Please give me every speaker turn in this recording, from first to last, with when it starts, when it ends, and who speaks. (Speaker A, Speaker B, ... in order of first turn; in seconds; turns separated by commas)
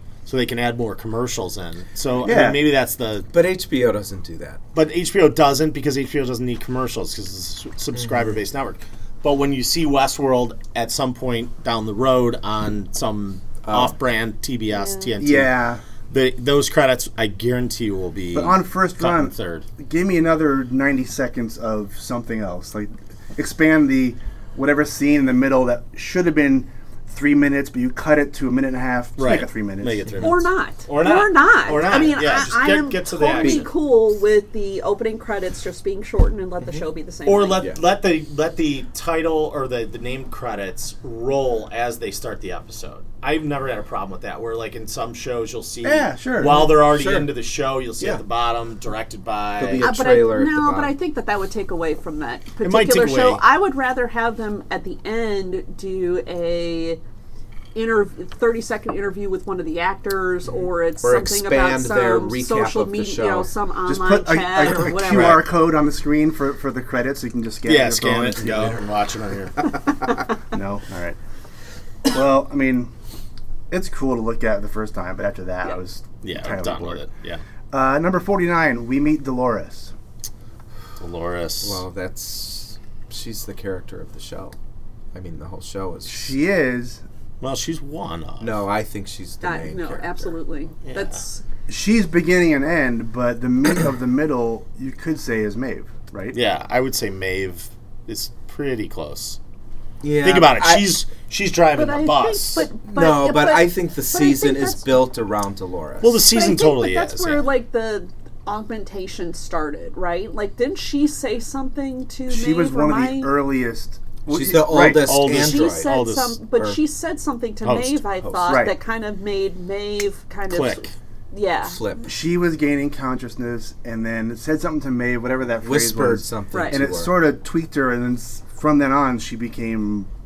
Speaker A: 0.2-3.3, Speaker B: 2.2-2.6, Speaker C: 3.3-4.6, Speaker A: 4.7-19.7, Speaker C: 13.6-13.9, Speaker D: 14.7-15.1, Speaker B: 15.2-15.8, Speaker B: 18.3-30.3, Speaker A: 29.2-33.7, Speaker D: 30.2-37.7, Speaker A: 37.2-49.9, Speaker B: 45.8-46.8, Speaker C: 46.5-47.3, Speaker C: 49.6-50.9, Speaker D: 49.8-57.0, Speaker A: 52.6-53.4, Speaker D: 57.8-65.4, Speaker C: 61.0-63.5, Speaker B: 63.9-68.8, Speaker A: 65.1-65.4, Speaker A: 67.7-69.7, Speaker B: 70.5-71.2, Speaker B: 72.1-72.9, Speaker B: 73.7-77.0, Speaker A: 76.2-77.4, Speaker B: 77.7-79.9, Speaker A: 81.0-81.8, Speaker C: 81.6-84.5, Speaker C: 85.1-86.3, Speaker B: 86.1-87.0, Speaker A: 87.4-88.6, Speaker C: 88.4-90.4, Speaker D: 89.4-91.4, Speaker A: 90.9-91.2, Speaker B: 91.7-96.4, Speaker A: 96.3-99.4, Speaker C: 100.0-101.0, Speaker A: 100.2-102.7, Speaker D: 101.8-105.0, Speaker C: 102.8-106.2, Speaker A: 106.0-107.4, Speaker D: 106.2-113.3, Speaker B: 112.3-115.2, Speaker C: 114.3-116.0, Speaker A: 114.7-116.4, Speaker D: 115.3-121.8, Speaker A: 117.6-118.0, Speaker C: 118.2-118.7, Speaker B: 118.5-118.7, Speaker A: 120.5-120.9, Speaker C: 121.7-122.1, Speaker B: 122.1-130.1, Speaker C: 125.6-127.1, Speaker D: 126.5-126.9